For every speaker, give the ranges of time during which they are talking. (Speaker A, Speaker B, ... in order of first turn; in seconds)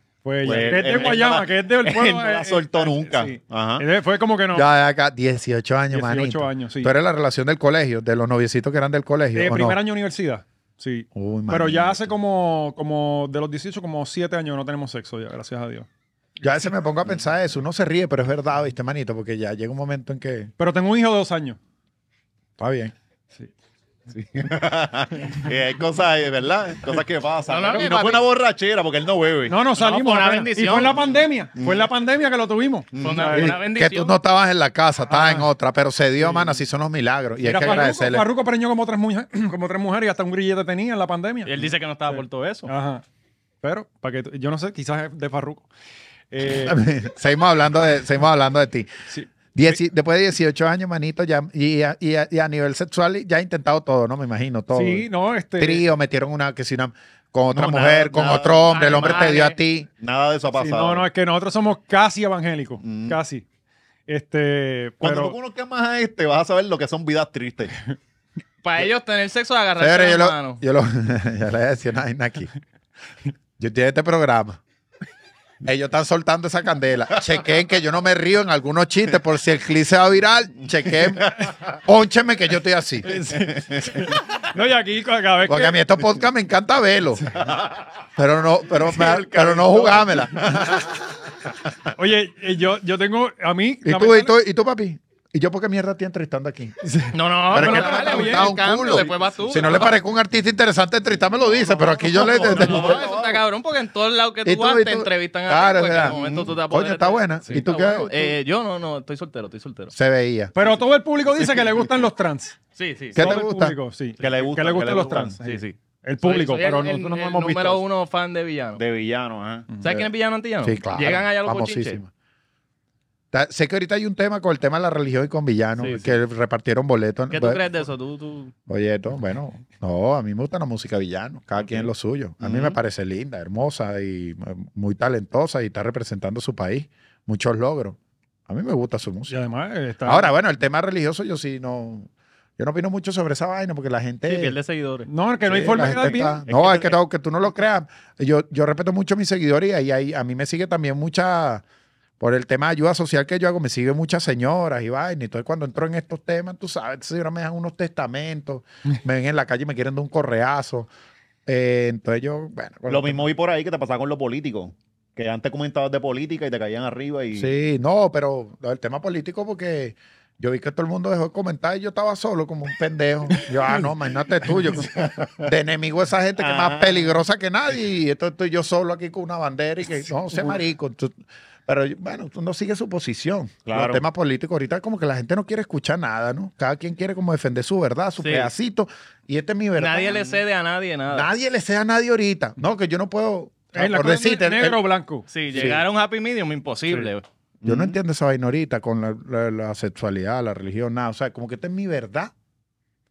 Speaker A: 0.2-4.7, 5.9-6.9, 9.3-15.9, 20.6-21.6, 29.5-33.6, 35.1-35.5, 36.2-36.5, 37.4-41.6, 42.1-43.0, 43.6-45.7, 46.3-46.8, 49.1-49.8, 54.7-55.9, 60.5-63.4, 64.1-65.3, 83.0-85.8, 91.9-94.3, 97.5-98.5, 110.5-112.6, 113.1-117.8, 139.3-140.3, 145.1-146.4, 193.7-195.2
Speaker B: 0.4-3.9, 24.1-29.6, 31.6-31.9, 32.9-33.4, 57.5-59.3, 60.0-61.0, 62.8-63.2, 65.0-67.7, 83.7-84.0, 87.4-87.8, 88.9-90.8, 101.5-103.4, 106.0-106.5, 114.2-115.4, 118.8-119.7, 132.4-132.8, 145.6-147.0, 162.9-167.5, 174.8-175.4, 176.4-177.1, 183.7-184.0, 197.6-197.9
Speaker C: 4.5-9.8, 11.1-12.1, 16.4-20.5, 22.6-22.9, 33.3-38.2, 46.5-48.9, 49.5-59.9, 69.8-72.5, 73.6-74.6, 75.6-83.1, 85.4-87.3, 88.2-90.9, 93.8-103.1, 104.4-108.3, 109.9-110.5, 113.1-113.8, 120.6-122.1, 123.3-127.6, 128.7-139.3, 140.0-144.6, 145.4-151.6, 152.2-160.9, 161.4-163.3, 167.3-190.2, 191.1-194.8, 195.5-195.8, 197.6-202.3
Speaker D: 27.5-28.2, 29.8-31.0, 33.0-34.1, 41.4-42.7, 58.7-59.5, 68.6-70.6, 97.1-100.0, 102.1-109.9, 112.8-113.2, 115.4-118.8, 119.8-122.0, 125.8-126.1, 127.3-128.5, 144.2-145.1, 188.2-188.5, 189.8-191.3, 195.3-197.2